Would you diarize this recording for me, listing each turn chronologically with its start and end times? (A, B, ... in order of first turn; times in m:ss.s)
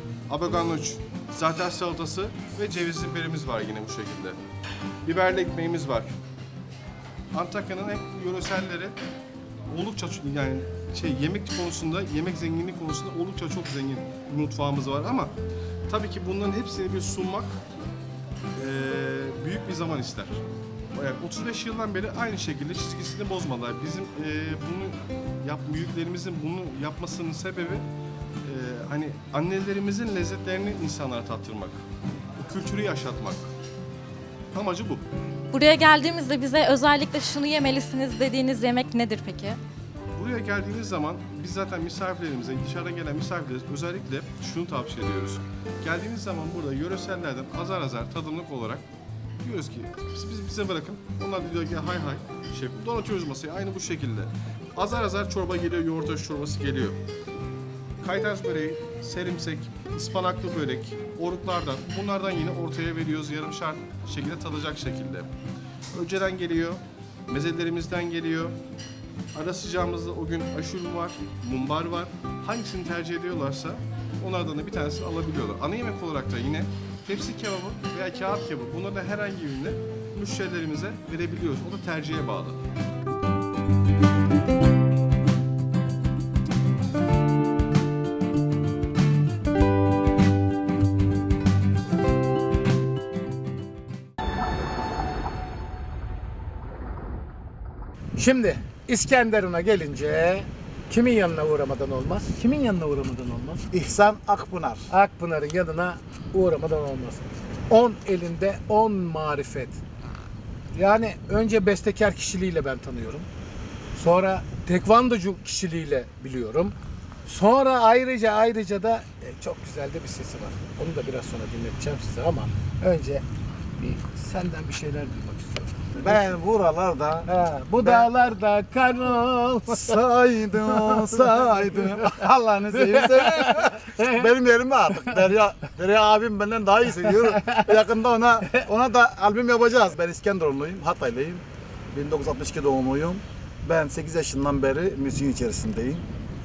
0:00.3-0:04.4 A
0:05.1-0:06.1 A
0:07.3-0:09.0 A
0:09.7-0:15.3 A
0:15.9-0:17.6 A
0:18.6-0:20.4 A
0:20.9-0:27.8 A
0:28.4-0:31.8 A
0:32.4-0:33.4 A
0:34.5-0:35.0 A
0:35.5-0:39.6 B
0:40.2-0:48.8 A
0:49.4-0:57.0 A
0:58.0-1:05.3 A
1:05.9-1:08.6 A
1:09.3-1:22.6 A
1:38.2-1:43.6 C
1:43.7-1:44.9 D
1:44.9-1:49.8 C
1:50.8-1:53.3 C
1:54.0-1:56.7 C
1:57.3-2:03.2 C
2:03.8-2:06.2 C
2:06.0-2:07.3 D
2:07.3-2:10.0 C
2:07.8-2:08.1 D
2:09.7-2:26.0 D
2:10.7-2:12.2 C
2:12.7-2:14.2 C